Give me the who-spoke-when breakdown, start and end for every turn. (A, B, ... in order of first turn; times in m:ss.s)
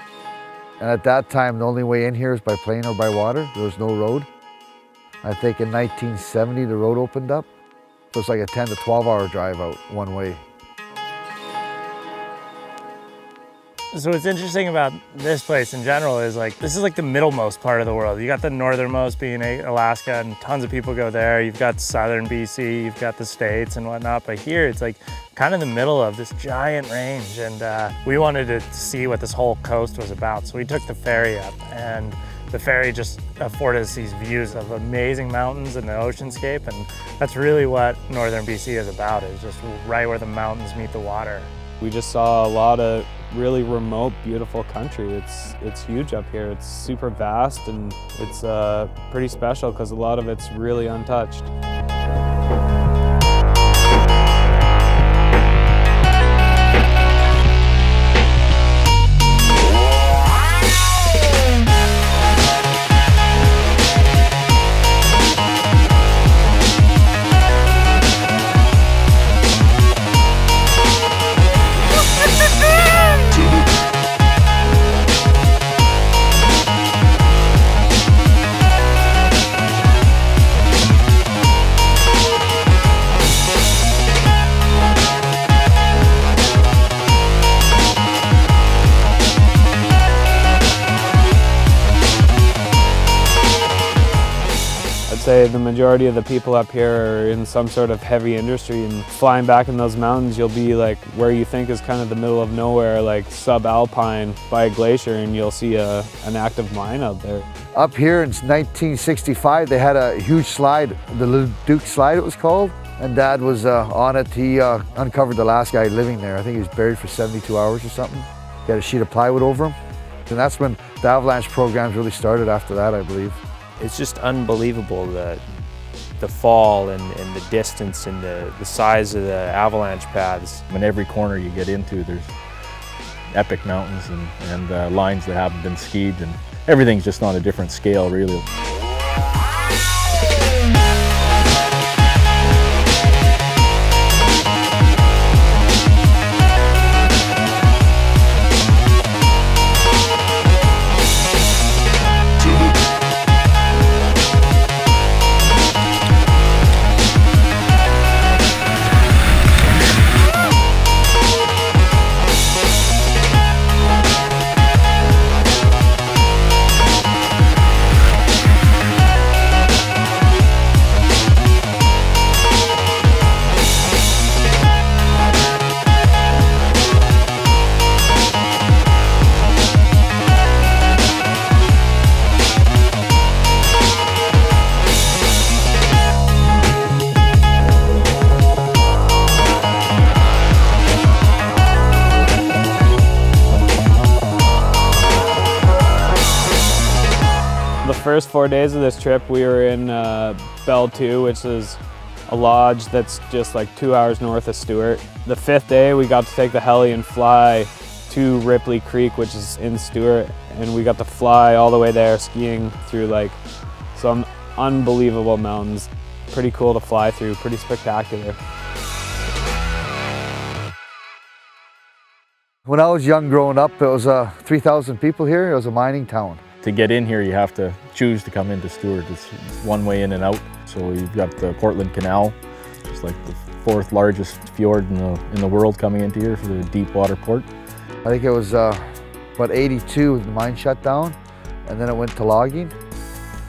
0:00.8-0:04.3 A
0:05.2-0:07.5 A
0:08.1-0:10.4 A
0:13.9-0:41.5 B
0:41.8-0:51.5 C
1:35.1-1:47.5 C
1:47.8-1:59.8 A
2:00.3-2:03.4 A
2:03.8-2:05.4 D
2:06.2-2:10.6 D
2:10.7-2:12.3 E
2:13.3-2:18.4 E
3:17.8-3:33.4 C
3:33.9-3:38.4 C
3:42.7-3:46.4 A
3:46.6-3:57.5 E
3:58.0-3:58.8 A
3:59.4-4:02.7 A